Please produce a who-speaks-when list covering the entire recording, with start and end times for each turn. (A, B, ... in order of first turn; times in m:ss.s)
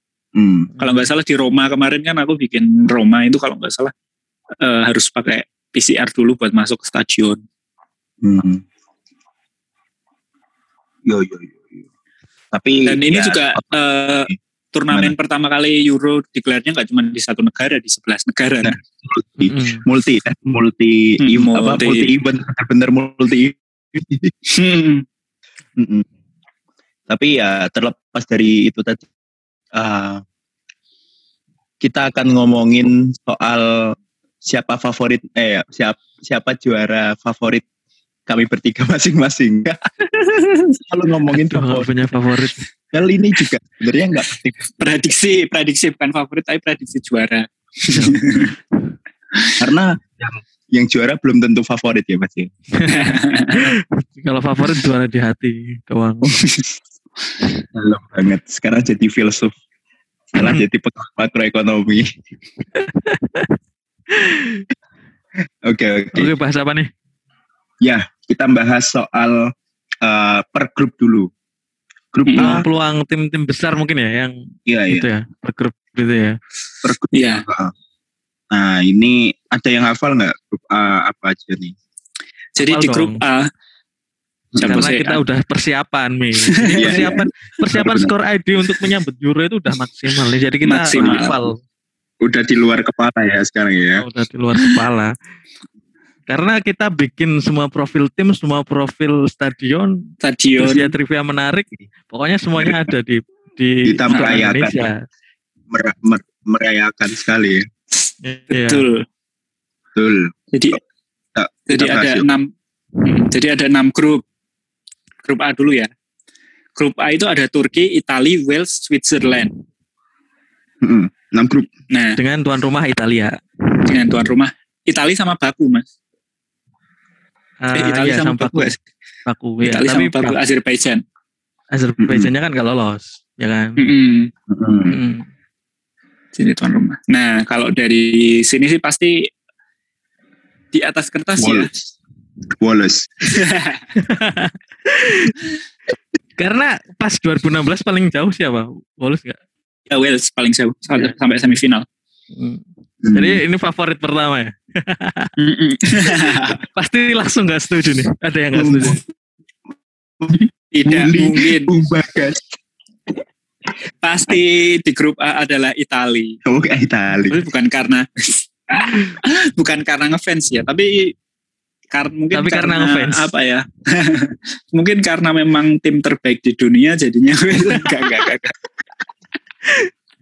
0:00.4-0:00.7 A
0:00.8-0:01.0 B
0:00.8-0:03.9 C
0:04.6-0:07.4 C
0:08.2-0:08.6 A
0:11.0-0:11.8 A
0:12.5-0:13.7 A
0:12.8-0:18.8 C
0:18.6-0:24.3 A
0:19.4-0:19.8 B
0:21.2-0:22.1 C
0:24.5-0:25.0 C
0:25.8-0:26.1 A
0:27.1-0:29.0 A
0:29.7-0:30.2 A
0:31.8-0:37.6 A
0:38.3-0:39.8 A
0:40.1-0:40.7 C
0:40.9-0:41.9 A
0:41.3-0:42.7 B
0:42.9-0:44.7 A
0:44.8-0:48.5 C
0:47.9-0:48.2 B
0:49.6-0:52.5 A
0:52.8-0:56.4 B
0:52.9-0:53.7 C
0:57.7-0:59.5 A
1:00.3-1:02.1 A
1:02.8-1:03.6 B
1:04.1-1:04.6 B
1:05.6-1:06.3 A
1:06.1-1:06.9 B
1:07.8-1:11.3 A
1:12.1-1:12.6 A
1:12.3-1:12.6 C
1:12.4-1:14.3 B
1:14.7-1:15.1 A
1:14.9-1:16.4 B
1:16.8-1:17.7 A
1:17.1-1:17.4 C
1:18.5-1:21.7 A
1:22.6-1:23.5 C
1:22.6-1:23.2 B
1:24.5-1:24.9 A
1:24.6-1:25.2 C
1:24.6-1:31.6 B
1:26.5-1:27.0 C
1:26.8-1:28.1 A
1:30.6-1:31.4 C
1:32.2-1:34.0 A
1:34.0-1:35.1 B
1:36.3-1:40.0 B
1:40.2-1:40.9 C
1:40.6-1:45.0 B
1:43.8-1:44.9 A
1:44.1-1:44.4 C
1:45.7-1:47.6 A
1:48.2-1:48.8 B
1:48.5-1:49.0 C
1:49.9-1:50.3 A
1:50.5-1:50.8 C
1:51.3-1:52.2 A
1:51.7-1:52.5 C
1:53.0-1:54.2 C
1:55.2-1:55.9 C
1:56.8-1:59.5 C
2:00.8-2:01.7 A
2:01.9-2:02.2 C
2:02.2-2:03.9 B
2:03.9-2:05.8 C
2:07.6-2:08.7 B
2:07.8-2:08.8 C
2:09.2-2:10.4 B
2:09.6-2:11.0 C
2:11.7-2:13.8 B
2:12.0-2:12.3 A
2:13.8-2:14.3 C
2:14.5-2:15.0 A
2:14.9-2:15.3 B
2:16.4-2:19.2 C
2:20.7-2:21.7 C
2:21.4-2:21.7 A
2:22.6-2:23.3 A
2:23.3-2:23.8 C
2:24.0-2:25.4 B
2:26.4-2:29.4 B
2:29.9-2:31.8 C
2:31.0-2:31.6 B
2:32.3-2:35.3 B
2:33.0-2:33.4 A
2:35.4-2:36.6 C
2:36.2-2:39.0 B
2:38.5-2:39.0 A
2:40.2-2:42.4 A
2:40.7-2:41.7 C
2:44.0-2:46.4 C
2:46.4-2:47.4 A
2:47.3-2:51.1 C
2:51.9-2:58.4 C
2:52.3-2:53.3 B
2:57.7-2:58.5 A